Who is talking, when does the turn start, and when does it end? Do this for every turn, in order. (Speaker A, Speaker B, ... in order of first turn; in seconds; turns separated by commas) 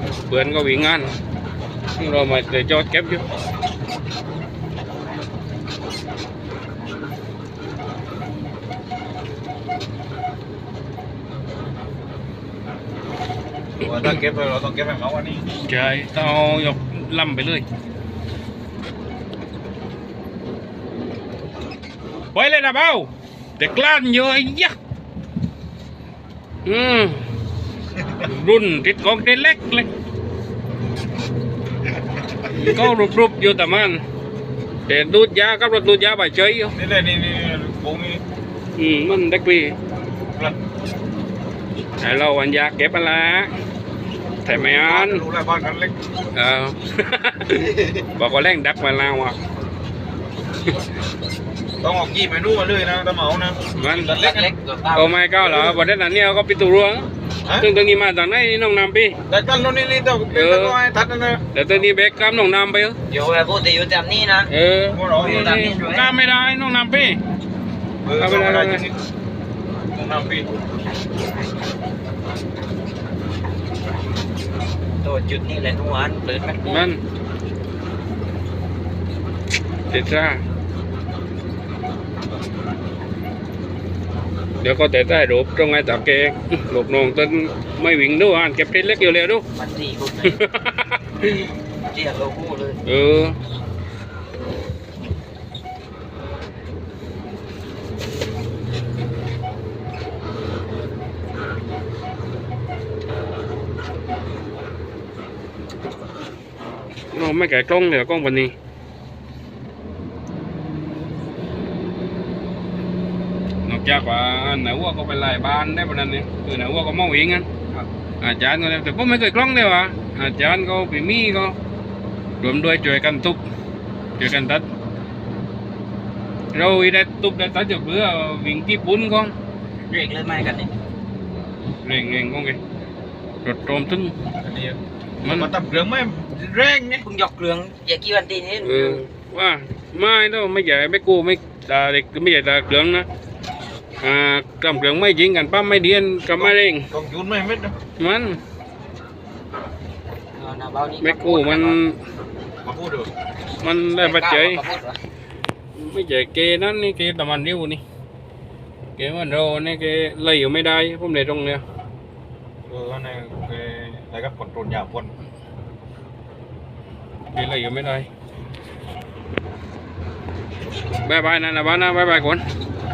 Speaker A: 0.3-1.1, Speaker A: 2.0-3.2, Speaker B: 13.8-15.5, Speaker A: 13.8-14.2, Speaker A: 15.6-17.6, Speaker A: 22.3-24.7, Speaker A: 26.6-27.2, Speaker A: 28.2-29.9, Speaker A: 32.5-34.0, Speaker B: 32.5-32.9, Speaker A: 34.9-36.8, Speaker B: 36.7-38.2, Speaker A: 38.8-39.8, Speaker A: 42.0-43.5, Speaker A: 44.4-45.2, Speaker B: 44.5-45.9, Speaker A: 46.3-49.4, Speaker B: 51.8-54.5, Speaker A: 53.7-54.1, Speaker C: 54.1-55.1, Speaker A: 54.9-57.1, Speaker A: 57.6-59.2, Speaker B: 59.3-61.4, Speaker A: 60.3-60.8, Speaker A: 61.5-63.0, Speaker C: 63.1-66.1, Speaker A: 64.5-67.2, Speaker B: 64.9-65.6, Speaker B: 68.0-68.9, Speaker A: 68.2-68.8, Speaker B: 69.9-70.5, Speaker C: 75.0-76.9, Speaker A: 76.6-77.0, Speaker A: 79.9-80.4, Speaker A: 84.6-89.4, Speaker C: 89.5-90.4, Speaker A: 90.2-91.5, Speaker C: 91.9-92.8, Speaker A: 92.8-93.3, Speaker A: 107.1-108.5, Speaker A: 113.6-117.5, Speaker A: 118.2-121.5, Speaker A: 122.4-123.4, Speaker A: 124.2-124.7, Speaker A: 126.5-129.3, Speaker C: 129.8-130.7, Speaker A: 131.8-132.6, Speaker A: 133.4-134.1, Speaker B: 134.4-137.0, Speaker A: 135.2-135.5, Speaker C: 137.0-139.0, Speaker A: 138.6-143.1, Speaker A: 144.0-146.9, Speaker B: 146.3-147.7, Speaker A: 148.0-148.4, Speaker C: 150.3-151.8, Speaker A: 151.0-152.0, Speaker B: 152.6-153.1, Speaker A: 153.6-154.6, Speaker C: 154.0-155.0, Speaker A: 155.7-157.8, Speaker A: 159.0-161.6, Speaker B: 162.7-165.1, Speaker A: 167.3-168.1, Speaker A: 171.0-172.4